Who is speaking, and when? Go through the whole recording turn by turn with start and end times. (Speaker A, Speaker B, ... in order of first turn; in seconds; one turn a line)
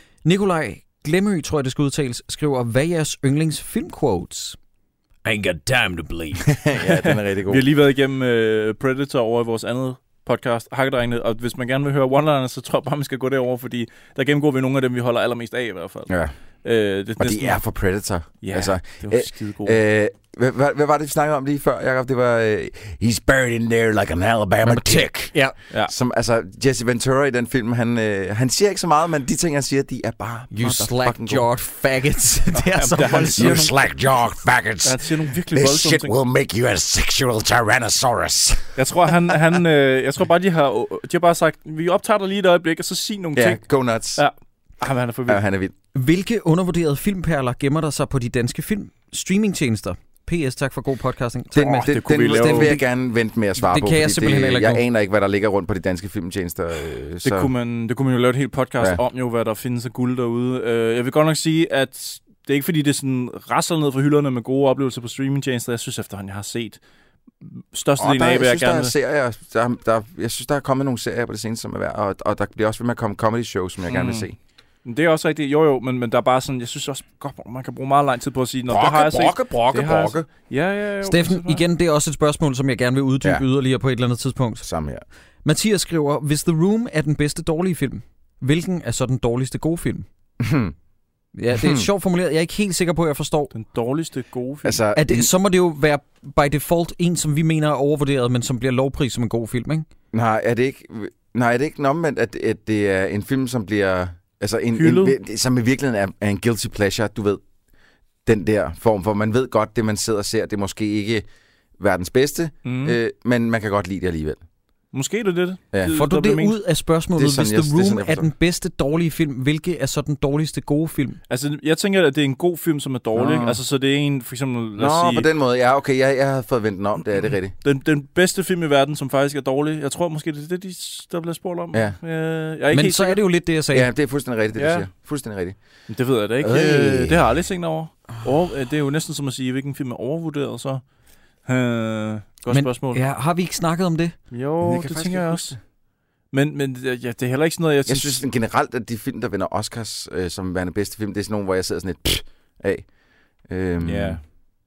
Speaker A: 0.2-4.6
Speaker A: 5.2-6.5
Speaker B: 6.5-7.6
Speaker C: 6.9-16.1
Speaker B: 16.1-16.3
Speaker C: 16.6-17.6
Speaker B: 17.2-31.5
Speaker C: 18.4-19.8
Speaker A: 24.6-25.5
Speaker A: 30.5-33.7
Speaker C: 32.5-33.8
Speaker B: 33.2-39.4
Speaker C: 34.8-36.1
Speaker C: 38.8-45.4
Speaker B: 43.3-44.2
Speaker B: 45.3-45.7
Speaker A: 45.9-52.8
Speaker B: 51.5-57.5
Speaker C: 51.6-52.7
Speaker A: 53.6-54.8
Speaker C: 57.2-66.8
Speaker C: 67.4-68.9
Speaker B: 68.0-74.3
Speaker C: 73.9-74.3
Speaker C: 74.8-81.6
Speaker B: 78.7-80.3
Speaker A: 81.0-84.7
Speaker B: 84.6-85.0
Speaker A: 85.4-90.1
Speaker B: 90.4-90.7
Speaker A: 91.3-93.5
Speaker B: 91.5-91.9
Speaker C: 93.5-94.8
Speaker B: 94.6-95.3
Speaker A: 94.9-99.8
Speaker B: 100.1-107.4
Speaker C: 104.7-105.2
Speaker B: 108.2-111.2
Speaker B: 111.8-114.4
Speaker C: 112.6-113.0
Speaker C: 114.9-116.5
Speaker A: 116.0-121.2
Speaker B: 117.2-118.3
Speaker C: 121.3-125.3
Speaker B: 123.1-123.6
Speaker B: 124.8-127.5
Speaker C: 127.6-133.2
Speaker A: 132.7-133.9
Speaker B: 133.7-135.6
Speaker C: 134.5-134.9
Speaker C: 135.9-140.8
Speaker B: 136.4-137.2
Speaker C: 141.4-143.0
Speaker A: 142.5-144.1
Speaker C: 144.3-145.5
Speaker B: 144.6-145.6
Speaker C: 146.3-148.2
Speaker B: 147.8-152.9
Speaker B: 153.5-154.2
Speaker C: 153.8-154.2